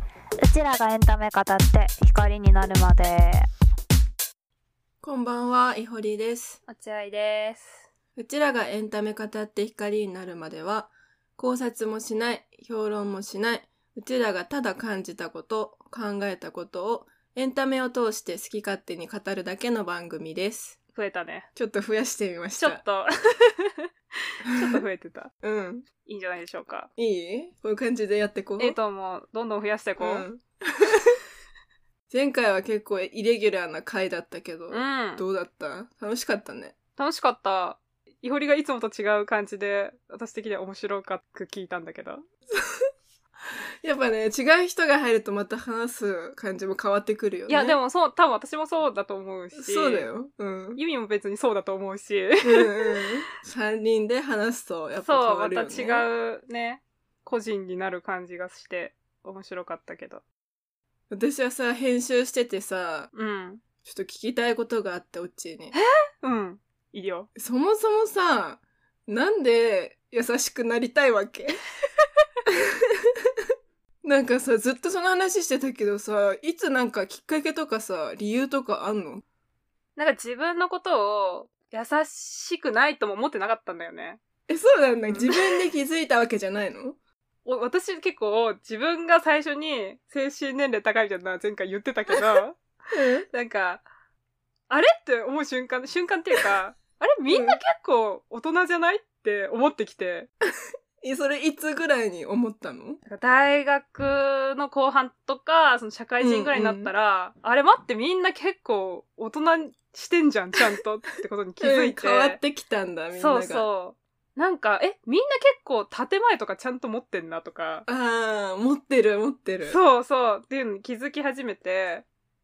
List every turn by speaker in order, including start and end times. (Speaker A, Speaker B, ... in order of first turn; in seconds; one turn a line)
Speaker A: 0.4-3.5
Speaker B: 5.0-6.6
Speaker C: 6.7-7.8
Speaker B: 8.2-20.8
Speaker C: 20.9-21.5
Speaker B: 21.6-22.8
Speaker C: 22.5-23.8
Speaker C: 24.4-25.3
Speaker B: 24.5-24.8
Speaker B: 25.4-25.9
Speaker C: 26.0-26.9
Speaker B: 27.0-28.8
Speaker C: 28.6-30.3
Speaker B: 30.0-31.2
Speaker B: 32.1-36.7
Speaker C: 34.7-35.2
Speaker C: 37.0-42.2
Speaker B: 42.5-42.8
Speaker B: 43.8-47.8
Speaker C: 47.5-50.1
Speaker B: 49.5-50.8
Speaker C: 50.8-53.0
Speaker B: 52.4-56.1
Speaker C: 55.0-60.2
Speaker B: 61.1-63.1
Speaker C: 63.1-63.6
Speaker B: 63.8-65.7
Speaker C: 65.7-67.3
Speaker B: 67.4-71.6
Speaker B: 72.5-73.1
Speaker B: 74.0-79.2
Speaker C: 80.0-84.2
Speaker B: 84.5-87.0
Speaker C: 85.1-85.4
Speaker C: 87.4-92.6
Speaker B: 92.9-93.2
Speaker C: 93.3-93.8
Speaker C: 94.7-100.3
Speaker B: 97.3-97.6
Speaker B: 101.0-103.0
Speaker C: 103.0-112.4
Speaker B: 106.2-106.9
Speaker B: 111.6-113.7
Speaker C: 113.1-117.8
Speaker B: 117.9-119.8
Speaker C: 119.6-122.0